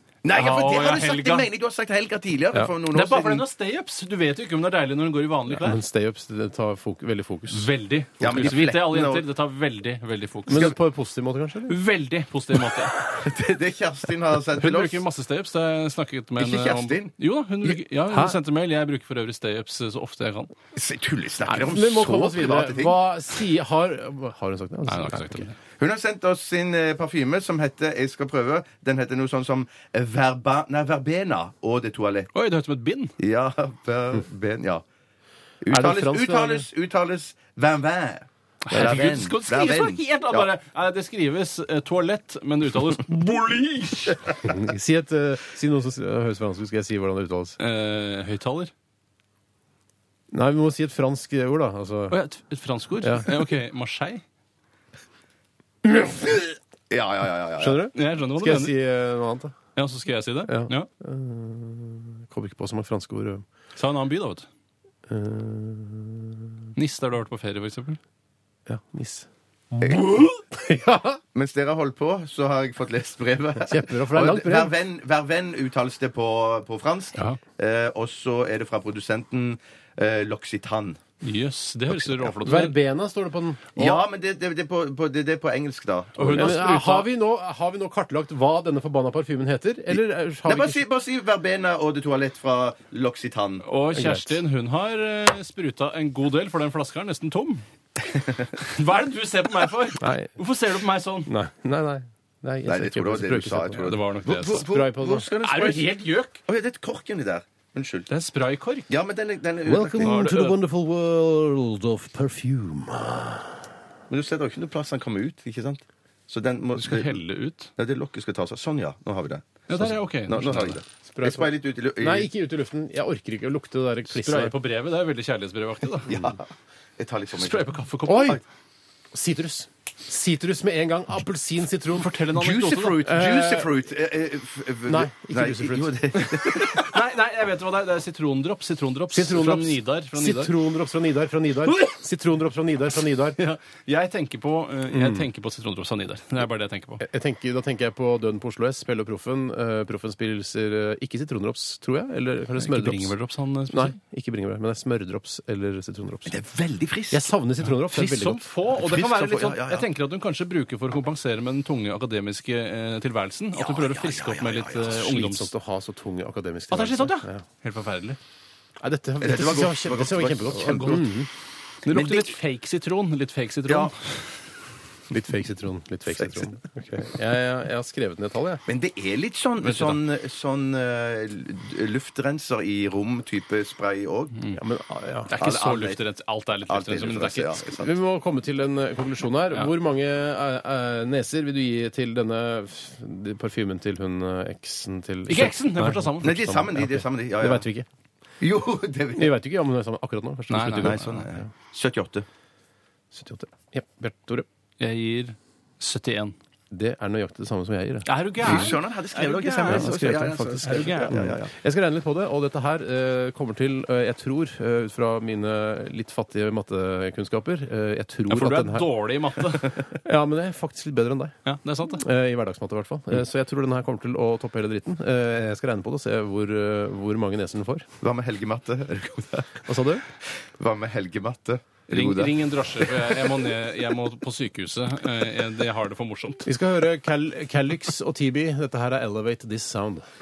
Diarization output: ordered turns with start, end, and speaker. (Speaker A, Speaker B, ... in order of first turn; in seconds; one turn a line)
Speaker A: 0.2-3.4
Speaker B: 0.3-1.5
Speaker B: 2.9-5.8
Speaker C: 5.5-7.7
Speaker B: 7.5-10.7
Speaker A: 8.2-9.2
Speaker C: 10.5-11.8
Speaker B: 11.7-13.0
Speaker A: 13.0-15.0
Speaker B: 14.5-20.5
Speaker A: 16.4-17.1
Speaker C: 18.1-18.4
Speaker A: 20.7-23.0
Speaker C: 21.5-25.5
Speaker B: 24.9-25.6
Speaker A: 25.8-32.3
Speaker B: 32.3-33.1
Speaker A: 33.2-34.8
Speaker A: 35.6-40.5
Speaker C: 35.7-36.7
Speaker B: 38.6-44.2
Speaker A: 43.8-44.2
Speaker C: 44.4-47.6
Speaker B: 47.6-48.7
Speaker C: 50.3-52.2
Speaker B: 52.1-54.2
Speaker C: 53.0-53.4
Speaker C: 55.8-56.6
Speaker A: 56.9-57.8
Speaker C: 57.6-59.6
Speaker B: 57.9-58.8
Speaker B: 59.7-60.9
Speaker C: 60.5-63.4
Speaker B: 63.8-64.5
Speaker C: 65.1-66.5
Speaker B: 66.8-68.0
Speaker C: 68.7-71.2
Speaker A: 69.8-70.1
Speaker A: 71.3-81.0
Speaker C: 73.6-74.7
Speaker B: 81.2-82.8
Speaker C: 82.1-84.0
Speaker A: 83.8-86.6
Speaker B: 86.2-87.1
Speaker C: 86.3-90.8
Speaker A: 90.5-93.7
Speaker B: 93.6-97.6
Speaker C: 93.9-94.4
Speaker B: 98.5-101.3
Speaker C: 100.0-100.3
Speaker C: 101.2-103.9
Speaker A: 102.7-108.1
Speaker B: 103.8-104.7
Speaker C: 104.5-105.3
Speaker B: 105.4-106.4
Speaker B: 108.1-108.9
Speaker A: 108.9-110.2
Speaker C: 109.6-113.6
Speaker B: 110.0-110.6
Speaker A: 114.1-117.2
Speaker B: 116.8-117.7
Speaker A: 117.8-122.3
Speaker B: 119.7-120.8
Speaker C: 121.1-124.5
Speaker B: 124.1-126.2
Speaker A: 126.1-126.4
Speaker A: 127.0-127.7
Speaker B: 127.3-128.4
Speaker C: 128.1-128.4
Speaker C: 129.1-132.1
Speaker B: 131.9-133.1
Speaker A: 132.3-136.9
Speaker C: 133.0-133.7
Speaker C: 134.9-136.0
Speaker B: 136.3-140.5
Speaker C: 139.1-143.4
Speaker B: 143.3-147.0
Speaker C: 144.9-145.3
Speaker C: 147.0-153.1
Speaker B: 152.6-153.9
Speaker C: 153.7-156.4
Speaker A: 156.3-157.3
Speaker C: 157.1-158.4
Speaker B: 157.9-165.5
Speaker A: 158.7-159.9
Speaker A: 163.6-165.1
Speaker C: 164.9-167.4
Speaker B: 166.7-168.2
Speaker C: 168.8-171.3
Speaker A: 169.2-171.1
Speaker B: 171.8-174.3
Speaker A: 171.9-172.3
Speaker A: 173.7-173.9
Speaker C: 175.1-178.6
Speaker A: 176.2-176.5
Speaker A: 178.7-184.4
Speaker B: 179.6-180.0
Speaker C: 184.5-185.3
Speaker B: 185.3-187.6
Speaker A: 185.3-186.0
Speaker A: 186.7-187.9
Speaker C: 187.8-197.8
Speaker B: 195.3-196.3
Speaker A: 196.2-197.6
Speaker A: 198.4-199.3
Speaker C: 199.2-201.5
Speaker B: 200.5-201.2
Speaker A: 200.8-202.2
Speaker C: 203.1-204.5
Speaker B: 204.8-206.3
Speaker C: 206.7-208.7
Speaker B: 208.1-210.0
Speaker A: 208.4-211.5
Speaker C: 209.6-218.9
Speaker B: 210.6-211.2
Speaker B: 218.3-219.8
Speaker C: 219.9-221.4
Speaker B: 221.4-222.0
Speaker C: 221.9-227.9
Speaker A: 228.0-229.7
Speaker C: 229.7-230.0
Speaker A: 230.6-233.3
Speaker B: 231.9-236.5
Speaker C: 236.4-240.1